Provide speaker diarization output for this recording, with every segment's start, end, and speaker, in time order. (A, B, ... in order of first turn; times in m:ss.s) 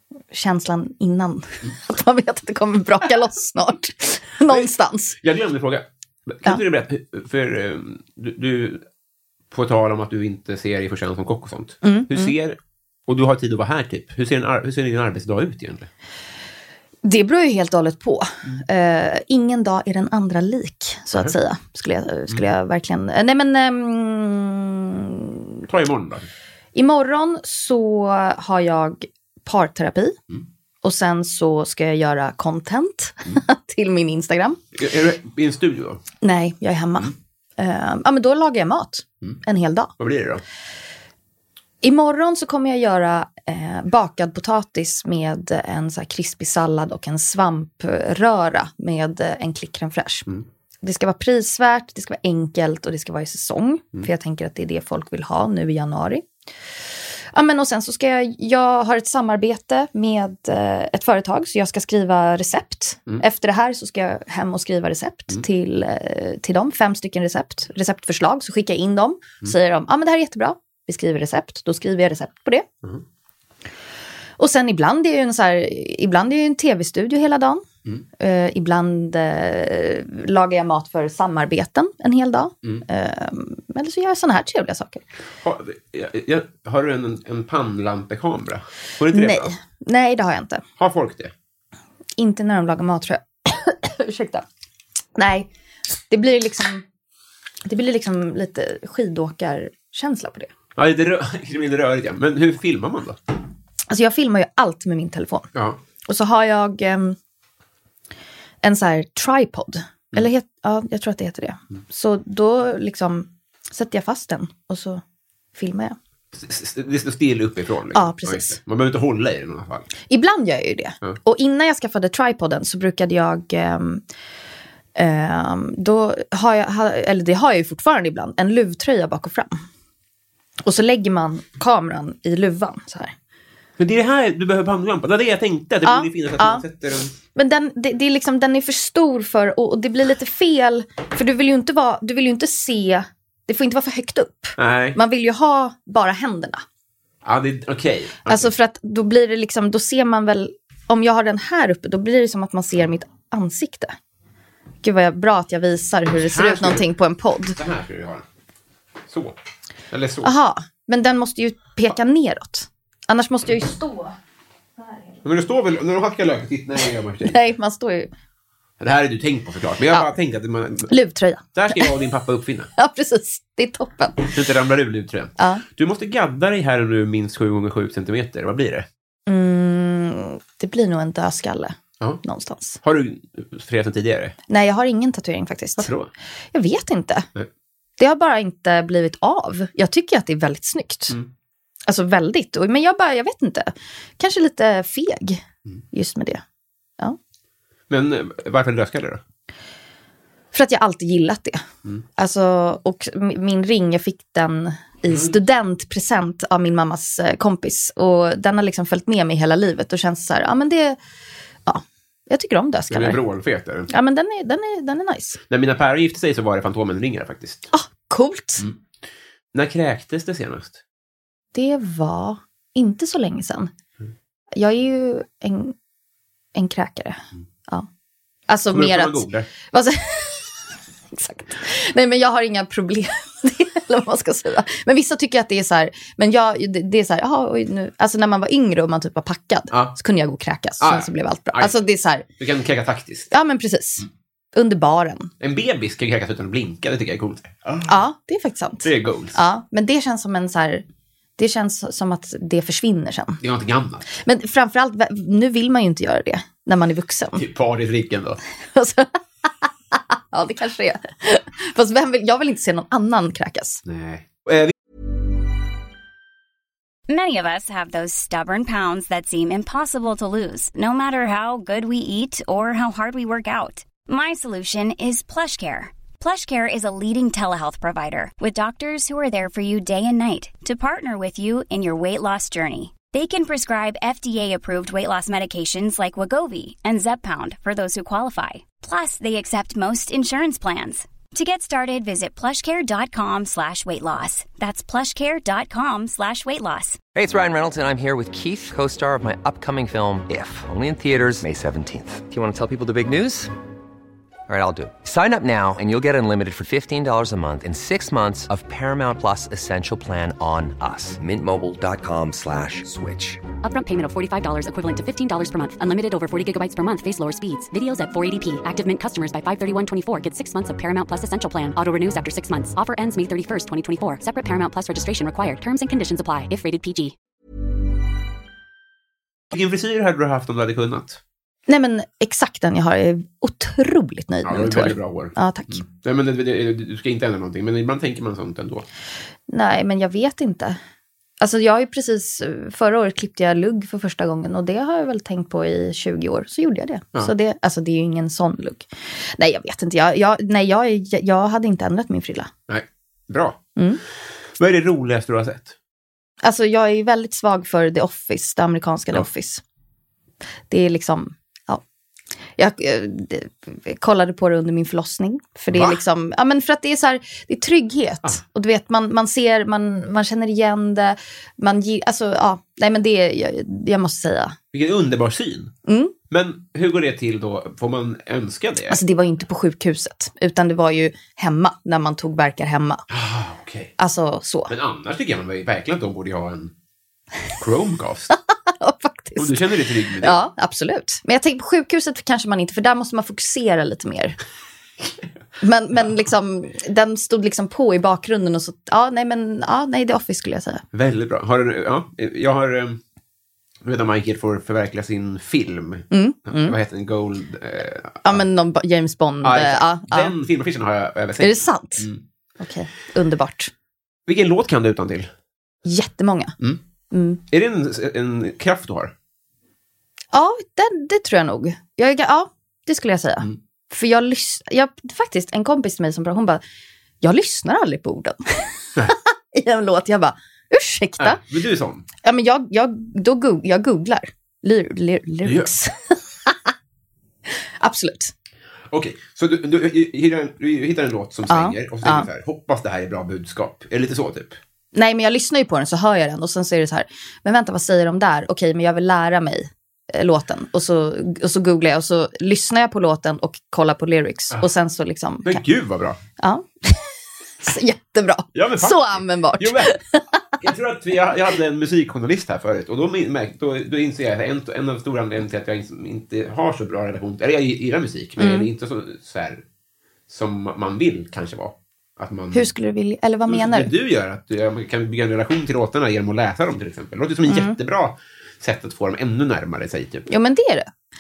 0:00.3-0:05.2 A
0:04.5-0:08.8 B
0:09.5-0:15.9 B
0:11.8-0:12.3 A
0:17.0-0:25.4 A
0:25.7-0:26.3 B
0:26.7-0:30.2 A
0:30.8-0:34.6 A
0:34.7-0:36.0 B
0:36.2-0:39.9 A
0:40.0-0:40.4 B
0:41.8-0:50.3 A
0:50.8-0:56.2 A
0:57.3-1:12.7 A
1:14.4-1:17.6 A
1:18.2-1:25.0 A
1:25.4-1:29.5 B
1:29.1-1:30.6 A
1:30.8-1:31.3 B
1:32.2-1:34.4 A
1:35.2-1:35.5 A
1:36.1-1:36.8 A
1:37.6-1:40.5 A
1:40.8-1:43.2 B
1:43.9-1:45.5 A
1:45.5-1:45.8 B
1:46.1-1:47.2 A
1:48.6-1:55.0 A
1:55.6-1:56.0 A
1:56.3-1:59.9 B
1:57.9-1:58.6 A
2:00.1-2:04.0 A
2:05.0-2:09.6 A
2:10.6-2:13.1 A
2:13.8-2:17.1 B
2:15.8-2:16.6 A
2:17.4-2:26.6 A
2:24.6-2:25.0 B
2:27.2-2:28.5 B
2:28.3-2:33.9 A
2:34.8-2:37.6 A
2:36.2-2:36.9 B
2:37.6-2:38.2 B
2:39.1-2:39.4 B
2:39.9-2:40.3 B
2:40.2-2:44.2 A
2:44.8-2:45.1 A
2:45.2-2:47.4 B
2:47.2-2:48.1 A
2:48.8-2:50.9 B
2:50.9-2:52.0 A
2:51.6-2:52.7 B
2:52.8-2:54.3 A
2:54.3-2:58.9 B
2:55.4-2:55.6 A
2:59.3-3:02.8 A
3:02.8-3:04.4 B
3:04.5-3:05.9 A
3:05.8-3:06.1 B
3:06.5-3:07.3 A
3:08.0-3:11.2 A
3:11.9-3:16.4 A
3:17.9-3:19.2 B
3:20.5-3:21.6 A
3:22.2-3:31.0 A
3:25.1-3:25.3 B
3:31.6-3:33.2 A
3:32.9-3:33.9 B
3:33.9-3:35.4 A
3:35.5-3:37.7 B
3:37.7-3:38.6 A
3:39.5-3:40.8 B
3:41.5-3:43.7 A
3:44.5-3:45.7 A
3:46.6-3:47.9 A
3:48.5-4:02.2 A
3:48.7-3:49.5 B
4:00.8-4:01.8 B
4:02.4-4:03.3 B
4:03.3-4:05.3 A
4:05.4-4:07.9 B
4:07.9-4:10.8 A
4:08.8-4:09.4 B
4:11.4-4:13.4 A
4:13.4-4:14.1 B
4:14.2-4:17.4 A
4:17.4-4:18.4 B
4:18.7-4:23.8 A
4:23.8-4:24.7 B
4:27.1-4:57.0 C
4:57.1-5:03.5 D
5:04.5-5:13.4 D
5:13.6-5:27.1 E
5:29.5-5:31.2 B
5:31.7-5:35.8 A
5:34.4-5:38.9 B
5:39.5-5:40.8 A
5:41.4-5:52.5 A
5:52.7-5:53.6 B
5:53.8-5:54.0 A
5:54.6-5:55.7 B
5:56.4-5:59.6 A
6:00.7-6:01.8 A
6:02.6-6:14.6 A
6:05.7-6:06.0 B
6:14.7-6:15.7 B
6:15.9-6:16.1 A
6:16.3-6:19.0 B
6:18.9-6:23.0 A
6:23.1-6:23.9 B
6:24.0-6:24.7 A
6:24.7-6:26.7 B
6:27.6-6:28.3 B
6:28.3-6:29.6 A
6:29.4-6:30.4 B
6:30.2-6:34.4 A
6:35.6-6:40.8 A
6:40.9-6:43.0 B
6:43.8-6:48.4 B
6:46.1-6:46.8 A
6:48.2-6:50.3 A
6:49.4-6:52.2 B
6:51.4-6:52.1 A
6:52.6-6:53.7 A
6:54.3-6:55.3 B
6:55.8-6:56.6 A
6:57.1-6:57.4 A
6:57.5-6:59.1 B
7:00.3-7:06.6 A
7:07.2-7:11.4 A
7:11.2-7:12.0 B
7:12.2-7:16.6 A
7:15.4-7:15.7 B
7:17.8-7:18.3 A
7:18.9-7:24.6 B
7:21.5-7:22.3 A
7:24.9-7:35.6 A
7:35.4-7:36.2 B
7:36.4-7:40.4 A
7:38.5-7:40.0 B
7:40.6-7:49.6 B
7:48.4-7:48.7 A
7:50.3-7:52.7 B
7:52.5-7:53.9 A
7:53.5-8:00.3 B
7:57.5-7:57.8 A
8:00.3-8:00.9 A